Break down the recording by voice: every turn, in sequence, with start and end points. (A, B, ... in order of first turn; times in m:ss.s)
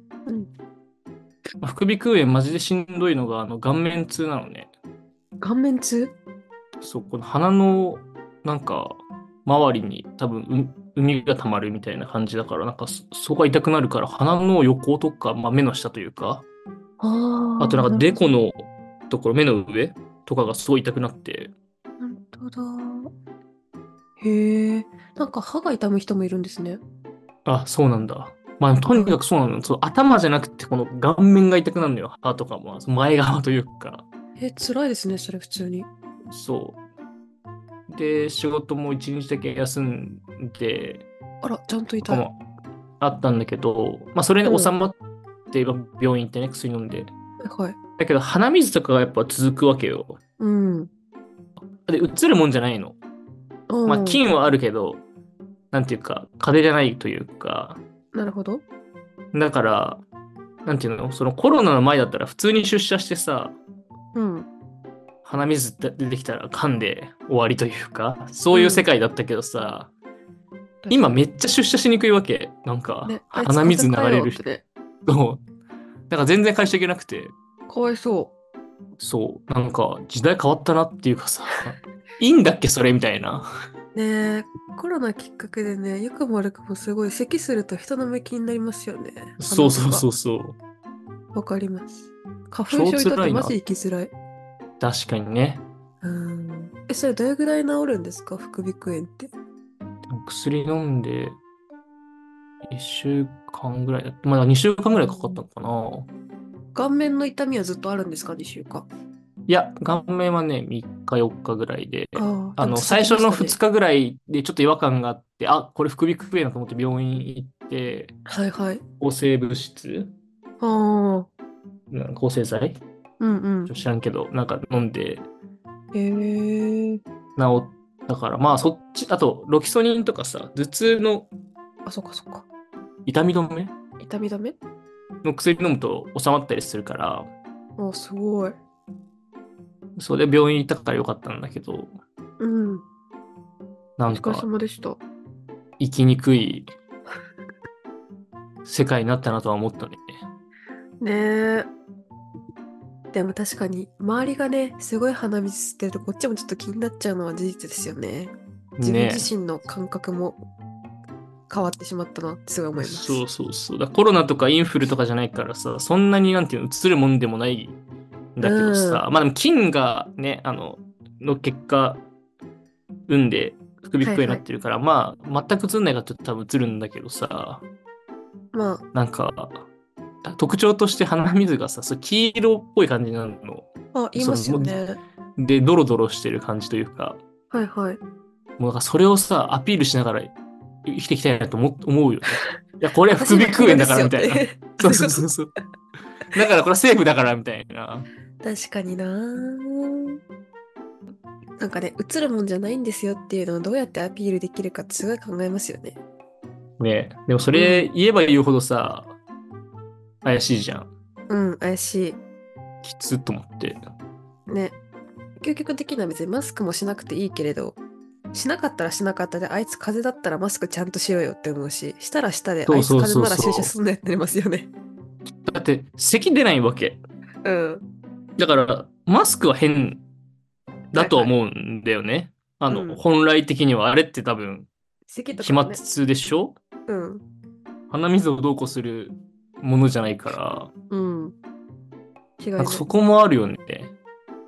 0:01.6-0:04.7 A
0:05.4-0:06.1 B
0:06.8-0:16.4 A
0:17.0-0:18.2 B
0:17.6-0:21.5 A
0:22.0-0:23.1 B
0:24.2-0:26.8 B
0:27.4-0:34.0 A
0:34.4-0:35.9 B
0:36.3-0:36.8 A
0:37.9-0:41.0 A
0:41.4-0:42.2 B
0:42.0-0:42.4 A
0:43.0-0:45.0 A
0:44.4-0:44.7 B
0:45.5-0:47.1 A
0:47.4-0:47.8 B
0:48.0-0:50.2 A
0:50.4-0:50.9 B
0:51.8-0:53.0 A
0:53.7-0:54.2 B
0:53.8-0:55.0 A
0:55.7-0:57.8 A
0:58.1-0:58.6 B
0:59.3-1:00.0 A
1:00.6-1:03.6 A
1:04.1-1:04.5 B
1:05.2-1:09.9 A
1:08.5-1:08.8 B
1:10.8-1:11.2 B
1:10.9-1:14.4 A
1:13.0-1:14.6 B
1:15.0-1:15.4 A
1:16.1-1:17.3 A
1:17.7-1:18.3 B
1:19.0-1:23.5 A
1:23.9-1:30.0 B
1:29.4-1:30.6 A
1:31.3-1:34.1 B
1:32.7-1:33.5 A
1:34.8-1:35.6 A
1:36.0-1:39.3 B
1:40.1-1:41.4 A
1:42.7-1:46.1 A
1:46.7-1:48.9 B
1:49.5-1:58.2 A
1:52.2-1:53.6 B
1:58.3-1:58.8 B
1:59.0-2:00.1 A
2:00.6-2:01.3 B
2:01.9-2:02.8 A
2:03.2-2:03.7 B
2:03.7-2:05.2 A
2:05.9-2:07.0 B
2:07.4-2:11.3 A
2:11.8-2:12.5 B
2:13.0-2:13.7 A
2:14.0-2:14.6 B
2:15.2-2:17.3 A
2:17.8-2:18.6 B
2:20.0-2:21.9 A
2:22.4-2:22.8 B
2:24.0-2:24.5 A
2:24.1-2:25.0 B
2:25.8-2:26.7 A
2:28.6-2:30.0 A
2:31.0-2:31.7 B
2:33.1-2:40.4 B
2:38.8-2:39.3 A
2:41.5-2:43.2 B
2:42.8-2:47.8 A
2:48.4-2:52.0 A
2:48.4-2:49.0 B
2:53.1-2:57.6 A
2:54.0-2:54.4 B
2:58.5-2:58.8 B
2:58.9-2:59.6 A
3:00.2-3:04.8 A
3:03.9-3:05.0 B
3:05.4-3:07.2 A
3:07.5-3:08.0 B
3:08.6-3:10.3 A
3:10.8-3:15.5 A
3:13.2-3:15.2 B
3:16.3-3:18.1 A
3:18.4-3:20.2 B
3:21.6-3:26.0 B
3:26.8-3:29.2 A
3:27.5-3:27.8 B
3:30.2-3:30.9 A
3:31.3-3:32.2 B
3:32.8-3:33.8 A
3:34.5-3:34.8 B
3:35.4-3:37.8 B
3:38.3-3:44.7 B
3:42.7-3:43.7 A
3:45.4-3:47.0 A
3:47.4-3:47.8 B
3:48.4-3:50.0 A
3:50.9-3:54.7 A
3:51.0-3:51.3 B
3:52.7-3:53.0 B
3:55.1-3:55.8 B
3:55.4-3:56.6 A
3:56.9-3:57.2 B
3:57.9-4:00.7 A
4:00.9-4:01.4 B
4:02.4-4:02.8 B
4:02.6-4:03.9 A